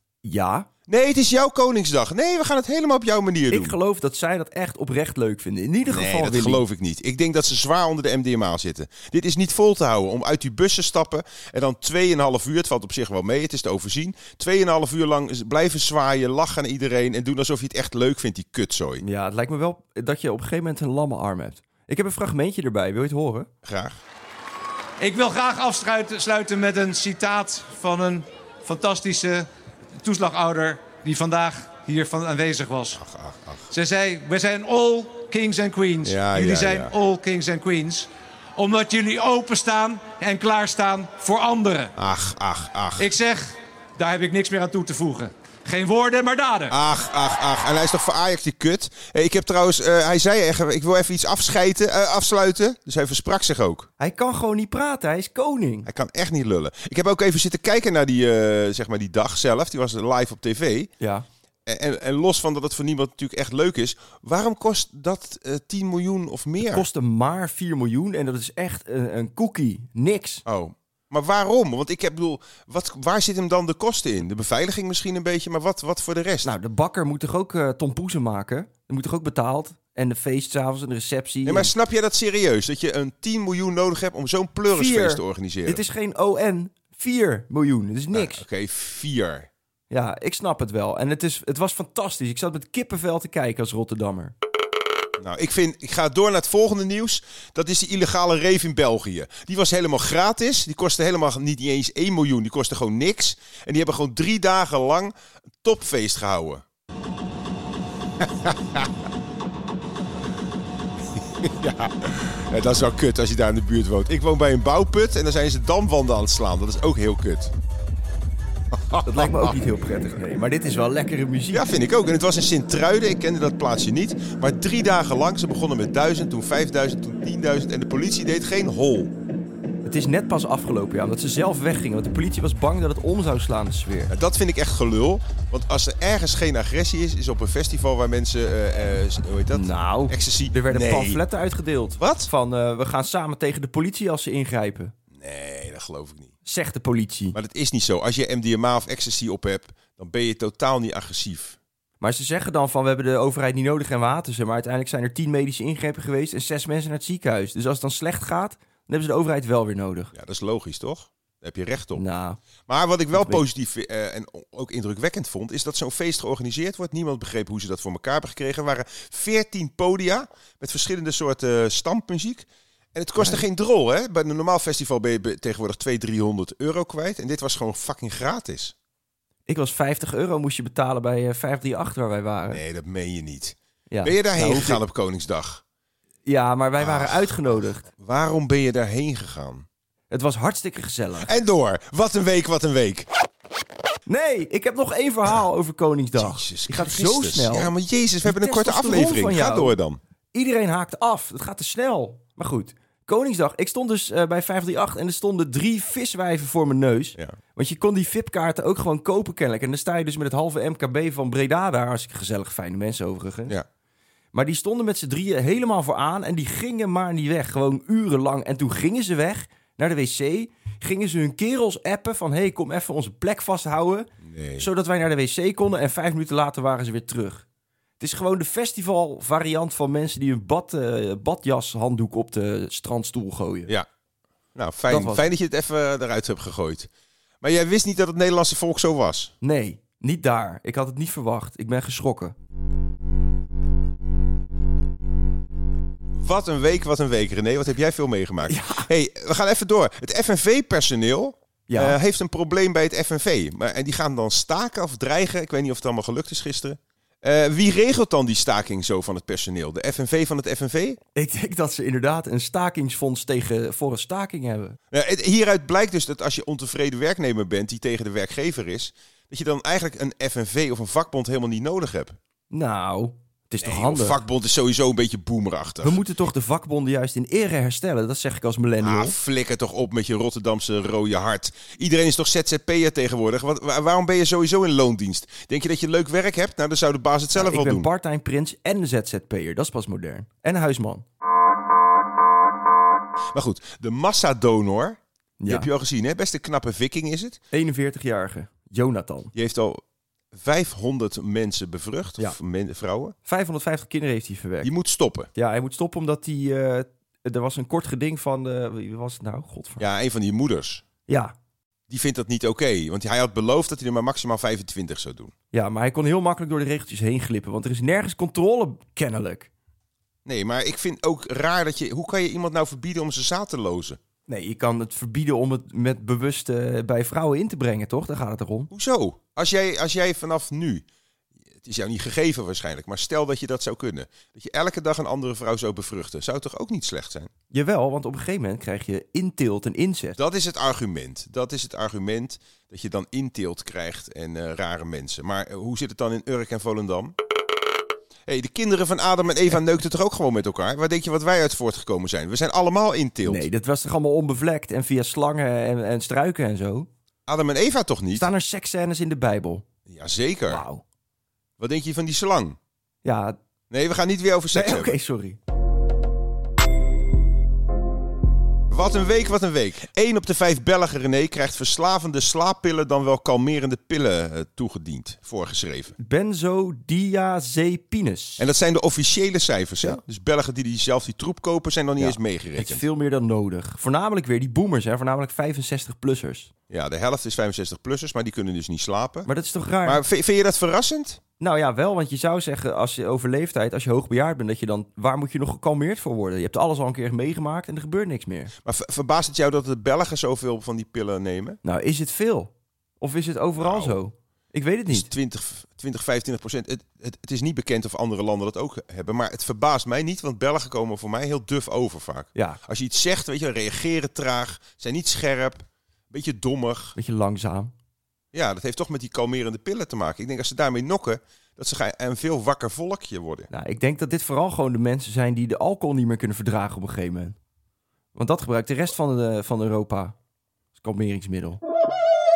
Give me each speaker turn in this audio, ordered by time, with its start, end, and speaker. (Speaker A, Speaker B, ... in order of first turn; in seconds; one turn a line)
Speaker A: 0.2-0.7
Speaker B: 0.9-3.8
Speaker A: 3.5-6.6
Speaker B: 5.9-19.0
Speaker A: 19.0-23.5
Speaker B: 23.6-24.0
Speaker C: 25.0-33.0
Speaker B: 32.9-33.7
Speaker C: 33.7-41.9
Speaker B: 36.0-36.9
Speaker B: 42.0-43.1
Speaker C: 43.0-46.7
Speaker B: 46.7-53.9
Speaker A: 54.0-55.9
Speaker B: 55.9-60.9
Speaker A: 61.0-61.2
Speaker B: 61.6-66.9
Speaker A: 66.6-70.4
Speaker B: 70.5-76.5
Speaker A: 76.4-81.7
Speaker B: 81.4-85.8
Speaker A: 84.7-88.4
Speaker B: 88.1-89.5
Speaker A: 89.9-94.3
Speaker B: 95.2-106.6
Speaker B: 108.2-108.9
Speaker B: 111.3-117.5
Speaker B: 118.7-119.6
Speaker A: 119.0-121.7
Speaker B: 121.5-129.1
Speaker A: 129.8-134.1
Speaker B: 134.1-141.2
Speaker A: 139.5-144.9
Speaker B: 142.0-142.3
Speaker B: 145.1-146.3
Speaker A: 146.4-147.4
Speaker B: 147.3-151.6
Speaker A: 152.0-160.1
Speaker B: 160.1-162.0
Speaker A: 161.9-162.4
Speaker B: 162.7-178.7
Speaker A: 163.1-163.4
Speaker A: 173.2-173.4
Speaker A: 179.5-182.6
Speaker B: 182.5-185.6
Speaker A: 183.9-184.8
Speaker A: 186.2-187.9
Speaker B: 186.8-189.7
Speaker A: 190.1-191.3
Speaker B: 191.2-193.1
Speaker A: 194.1-199.8
Speaker B: 196.2-200.0
Speaker A: 200.3-213.5
Speaker A: 214.3-227.4
Speaker B: 224.2-224.7
Speaker A: 228.0-233.7
Speaker B: 234.5-236.9
Speaker A: 234.9-235.3
Speaker B: 237.4-239.3
Speaker A: 239.4-242.3
Speaker B: 246.1-261.0
Speaker A: 248.5-248.9
Speaker A: 251.7-252.0
Speaker A: 261.1-264.8
Speaker B: 264.9-272.1
Speaker A: 272.5-274.2
Speaker B: 273.6-276.0
Speaker A: 275.8-279.1
Speaker B: 278.8-287.9
Speaker A: 287.3-291.0
Speaker B: 293.3-297.4
Speaker A: 295.4-295.7
Speaker A: 297.5-299.3
Speaker B: 299.3-299.8
Speaker B: 300.3-303.1
Speaker A: 303.2-304.7
Speaker B: 304.6-305.3
Speaker A: 305.3-309.8
Speaker B: 309.8-310.8
Speaker A: 311.1-311.3
Speaker B: 311.9-315.3
Speaker A: 315.5-319.5
Speaker B: 320.2-324.0
Speaker A: 324.3-328.7
Speaker B: 328.7-330.8
Speaker B: 331.6-337.3
Speaker A: 337.5-340.2
Speaker B: 340.2-347.1
Speaker B: 348.3-353.5
Speaker A: 353.2-356.9
Speaker B: 357.3-358.3
Speaker A: 358.1-359.6
Speaker B: 359.9-360.6
Speaker A: 360.5-360.8
Speaker B: 361.6-362.6
Speaker A: 363.0-363.4
Speaker B: 363.7-365.0
Speaker A: 364.5-365.4
Speaker B: 368.7-375.9
Speaker A: 376.0-378.4
Speaker B: 378.4-382.8
Speaker A: 382.0-386.5
Speaker B: 386.7-389.3
Speaker A: 389.2-390.0
Speaker B: 389.8-391.2
Speaker A: 391.4-398.5
Speaker B: 398.6-401.6
Speaker A: 401.6-405.1
Speaker B: 403.6-404.0
Speaker B: 404.9-417.0
Speaker A: 416.9-417.7
Speaker B: 418.3-423.5
Speaker A: 423.5-427.3
Speaker A: 428.1-430.1
Speaker A: 430.8-431.6